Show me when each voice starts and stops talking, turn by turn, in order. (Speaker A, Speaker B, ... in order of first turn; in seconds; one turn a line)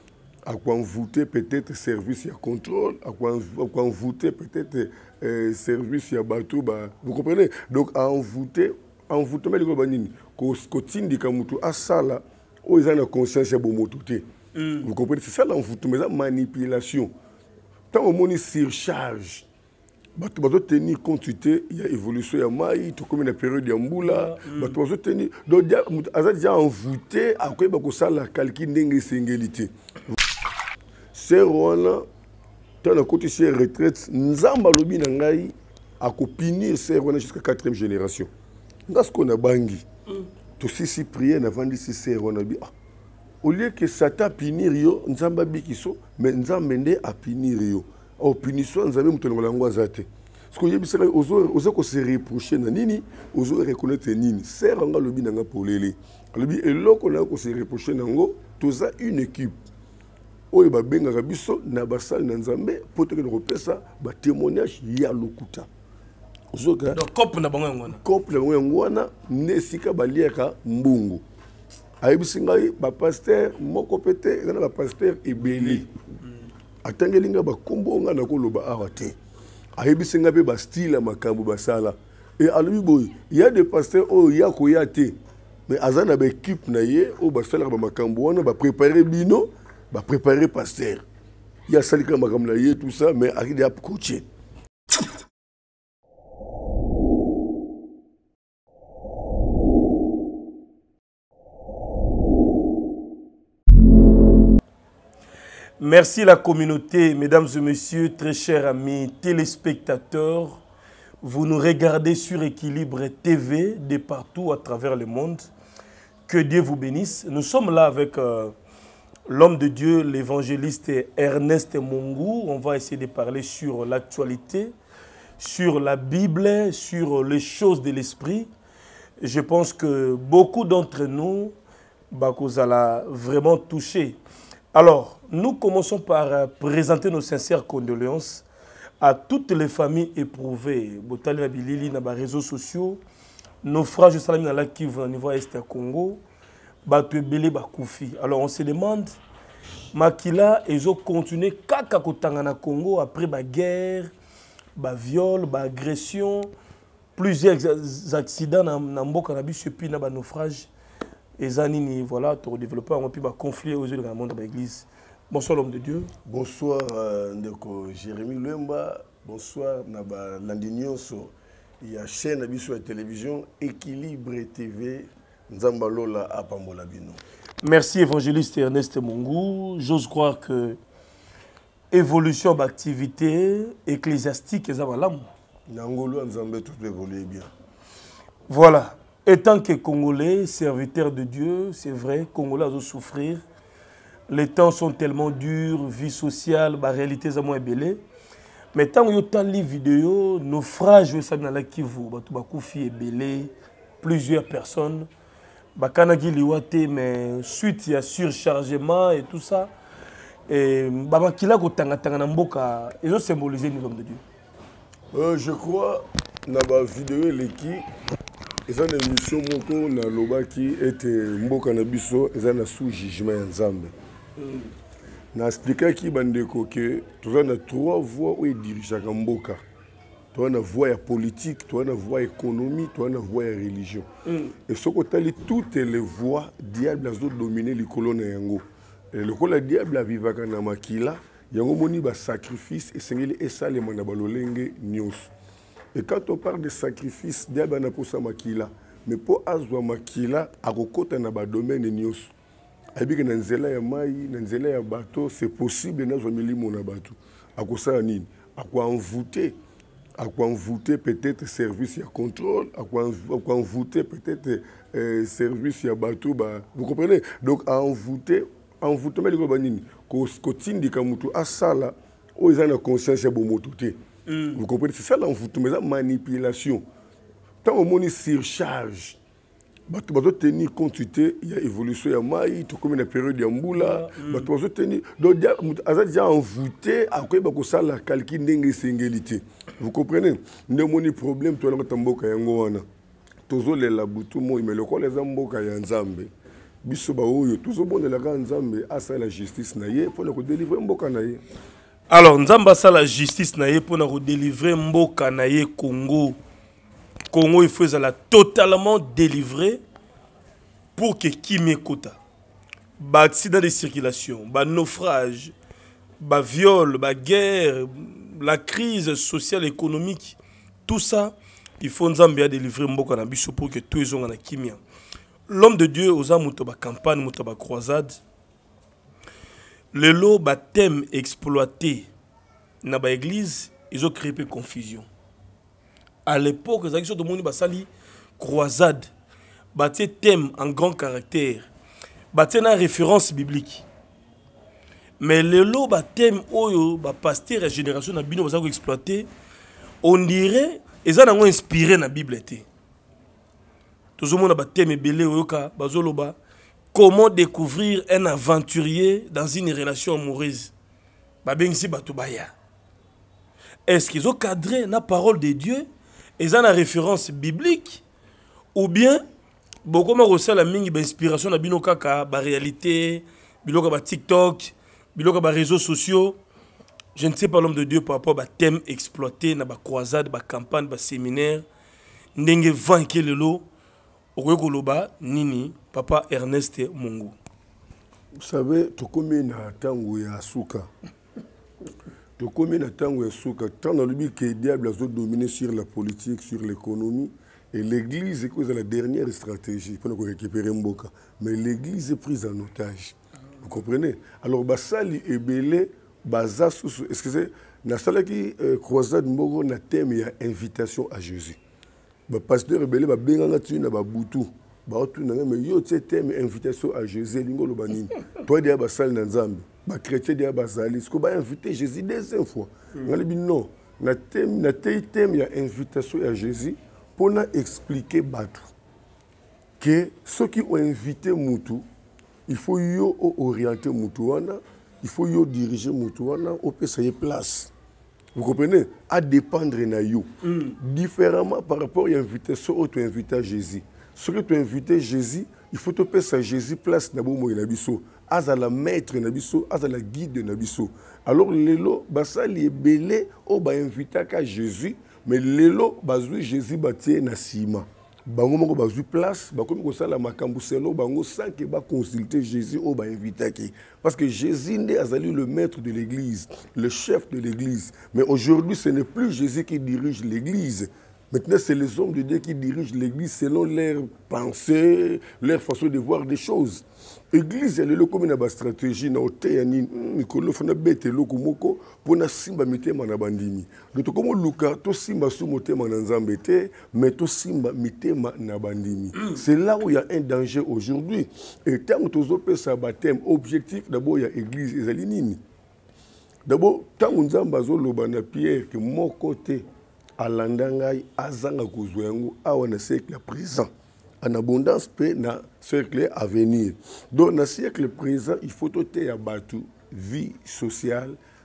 Speaker A: 0.5-14.2
Speaker B: 14.5-14.9
Speaker A: 14.8-17.1
Speaker A: 17.9-19.4
Speaker A: 20.2-29.7
Speaker B: 24.0-24.8
Speaker A: 31.1-32.0
Speaker A: 32.8-38.3
Speaker A: 38.9-39.8
Speaker A: 40.6-42.7
Speaker A: 43.4-59.5
Speaker A: 60.5-65.7
Speaker A: 66.5-67.0
Speaker B: 66.9-68.0
Speaker A: 67.9-71.2
Speaker A: 72.0-75.9
Speaker A: 76.8-79.2
Speaker A: 79.8-85.2
Speaker A: 85.7-91.0
Speaker A: 91.7-94.2
Speaker B: 105.8-110.6
Speaker B: 111.2-115.5
Speaker B: 116.3-118.5
Speaker B: 119.3-124.7
Speaker B: 125.4-128.5
Speaker B: 129.2-131.5
Speaker B: 132.1-134.2
Speaker B: 134.7-138.4
Speaker B: 139.0-143.0
Speaker B: 143.6-146.2
Speaker B: 146.8-149.2
Speaker B: 149.9-154.1
Speaker B: 154.8-156.5
Speaker B: 157.2-160.7
Speaker B: 161.4-166.1
Speaker A: 166.2-177.2
Speaker B: 177.6-180.8
Speaker B: 181.9-185.3
Speaker A: 185.7-187.5
Speaker B: 188.5-193.4
Speaker B: 194.3-198.0
Speaker B: 198.7-205.1
Speaker B: 205.8-209.7
Speaker B: 210.5-214.2
Speaker A: 215.1-217.8
Speaker A: 218.7-223.9
Speaker A: 225.3-229.6
Speaker A: 230.3-234.1
Speaker A: 234.7-245.3
Speaker A: 245.9-252.3
Speaker A: 252.9-259.6
Speaker A: 260.2-274.0
Speaker B: 274.3-274.6
Speaker A: 274.5-276.8
Speaker A: 277.6-279.2
Speaker A: 279.9-292.8
Speaker B: 283.8-284.5
Speaker A: 293.5-296.3
Speaker A: 296.8-301.4
Speaker B: 302.1-306.4
Speaker B: 307.3-309.8
Speaker B: 310.9-312.2
Speaker B: 313.0-315.5
Speaker B: 316.2-324.8
Speaker B: 325.5-328.2
Speaker B: 329.9-332.1
Speaker B: 332.8-335.1
Speaker B: 336.2-339.1
Speaker B: 339.7-341.7
Speaker B: 342.3-343.8
Speaker B: 345.2-349.3
Speaker B: 350.0-352.6
Speaker B: 354.2-356.4
Speaker B: 356.9-360.7
Speaker B: 361.4-362.5
Speaker B: 363.9-365.9
Speaker B: 366.4-368.0
Speaker B: 368.7-369.2
Speaker B: 369.8-376.4
Speaker B: 377.1-381.6
Speaker B: 382.4-383.6
Speaker B: 384.3-387.3
Speaker A: 388.4-390.9
Speaker A: 392.4-411.6
Speaker A: 412.3-428.7
Speaker A: 429.8-431.8
Speaker A: 432.5-437.7
Speaker A: 438.3-495.4
Speaker A: 496.4-499.6
Speaker A: 500.2-503.7
Speaker A: 504.2-511.2